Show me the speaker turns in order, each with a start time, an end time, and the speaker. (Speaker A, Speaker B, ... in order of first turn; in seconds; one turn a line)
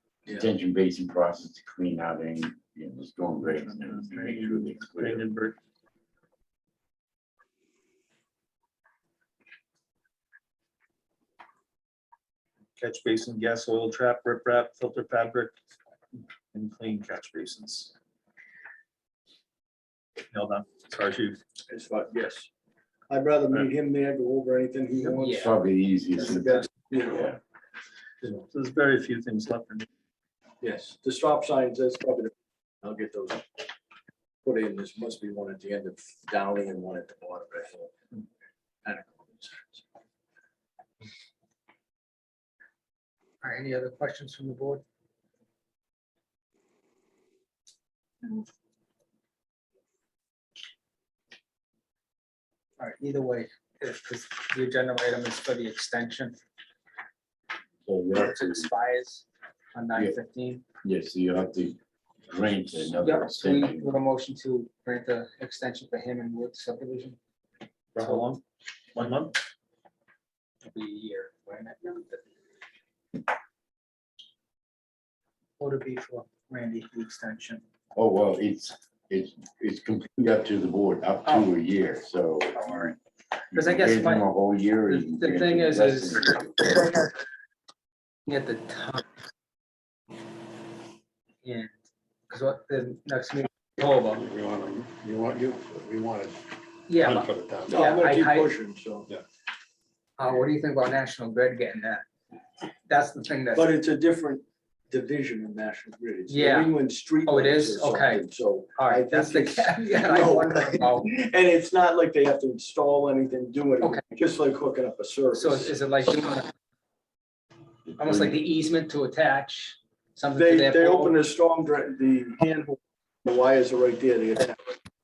Speaker A: 0.3-5.2
Speaker B: 5.0-5.6
Speaker B: 12.8-15.5
Speaker B: 16.5-17.9
Speaker B: 20.3-21.4
Speaker C: 21.7-22.5
Speaker C: 23.1-25.4
Speaker D: 25.1-25.5
Speaker A: 25.2-27.4
Speaker C: 26.2-27.3
Speaker B: 28.2-29.9
Speaker C: 30.6-33.4
Speaker C: 34.4-37.9
Speaker C: 38.8-39.8
Speaker D: 43.4-44.8
Speaker D: 52.8-56.4
Speaker A: 57.8-58.7
Speaker D: 58.1-60.6
Speaker A: 60.8-64.0
Speaker D: 63.0-67.2
Speaker B: 67.9-68.4
Speaker D: 68.0-68.3
Speaker B: 68.9-69.3
Speaker D: 70.6-72.2
Speaker D: 75.6-77.6
Speaker A: 77.9-82.9
Speaker D: 82.5-82.9
Speaker A: 83.5-87.0
Speaker D: 83.5-84.3
Speaker D: 84.9-87.0
Speaker D: 88.3-89.0
Speaker D: 91.4-91.7
Speaker D: 92.3-94.2
Speaker E: 94.1-98.0
Speaker D: 96.9-98.5
Speaker C: 97.7-99.1
Speaker D: 100.2-102.0
Speaker D: 102.9-103.7
Speaker C: 103.5-115.7
Speaker D: 106.3-111.1
Speaker D: 115.3-116.5
Speaker D: 118.0-121.2
Speaker C: 120.3-124.6